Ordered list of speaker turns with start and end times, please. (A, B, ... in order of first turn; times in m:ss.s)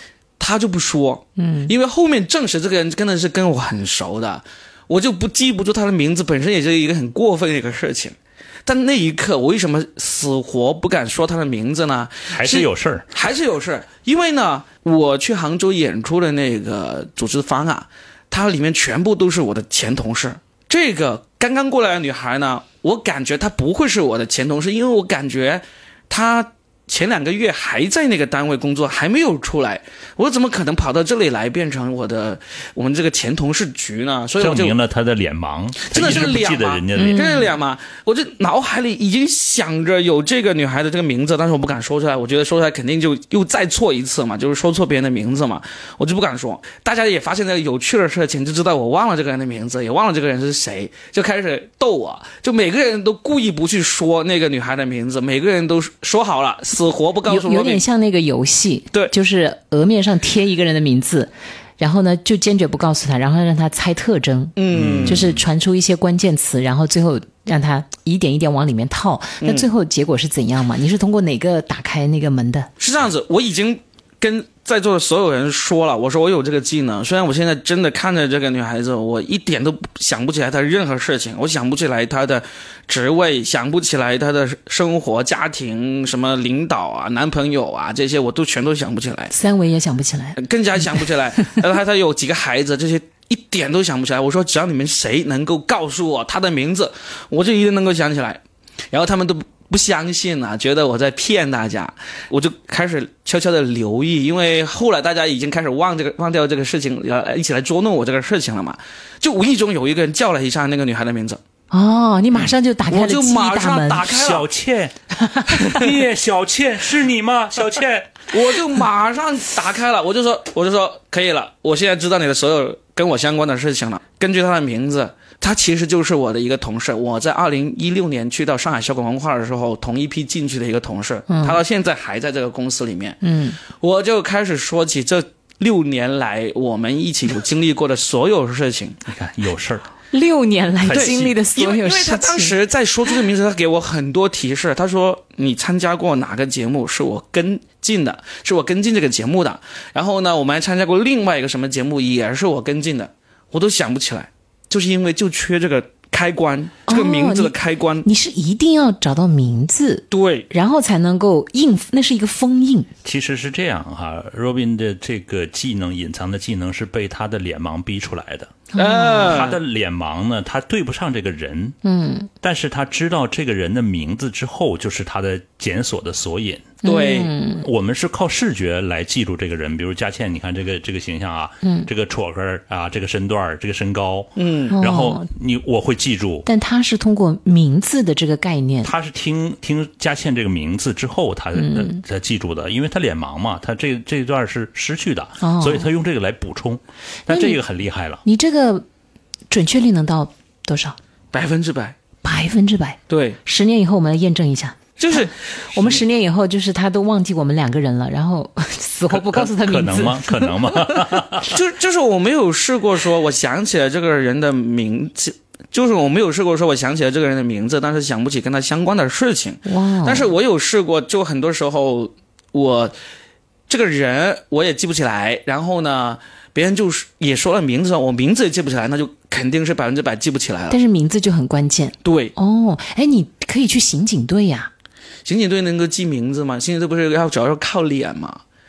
0:00.4-0:34.8 A
0:01.4-0:01.7 B
0:12.3-0:13.1 C
0:34.4-0:37.3 C
0:35.8-0:57.8 A
0:37.0-0:37.5 B
0:57.3-1:12.7 B
1:04.6-1:05.2 A
1:04.7-1:05.4 C
1:09.4-1:09.7 A
1:12.8-1:29.3 A
1:29.3-1:31.6 B
1:30.4-1:51.4 A
1:51.7-1:54.1 B
1:52.9-1:54.5 A
1:54.1-1:54.9 C
1:55.2-1:55.8 B
1:55.5-1:58.3 C
1:58.3-2:19.0 A
2:11.3-2:11.6 B
2:13.2-2:13.6 B
2:19.1-2:19.9 C
2:20.1-2:22.6 B
2:20.8-2:21.4 C
2:20.9-2:38.1 A
2:36.9-2:42.9 B
2:40.1-2:40.5 A
2:43.0-2:48.6 C
2:48.7-2:49.4 B
2:48.8-2:49.6 A
2:49.3-2:51.8 C
2:51.8-2:52.3 B
2:52.4-2:56.8 C
2:56.8-2:57.7 B
2:56.8-2:57.3 A
2:57.6-3:06.5 C
3:01.6-3:01.9 B
3:04.4-3:04.7 A
3:04.7-3:05.3 B
3:06.5-3:08.9 B
3:08.8-3:18.2 C
3:11.6-3:12.0 B
3:15.4-3:15.9 B
3:17.3-3:17.6 B
3:18.2-3:18.8 B
3:19.5-3:21.0 B
3:21.3-3:22.0 A
3:22.2-3:31.2 B
3:23.1-3:23.4 A
3:25.0-3:26.0 A
3:29.1-3:31.6 C
3:31.4-3:42.9 A
3:39.7-3:40.3 B
3:43.7-3:50.8 A
3:50.7-3:54.7 B
3:52.0-3:52.3 A
3:55.2-3:58.4 A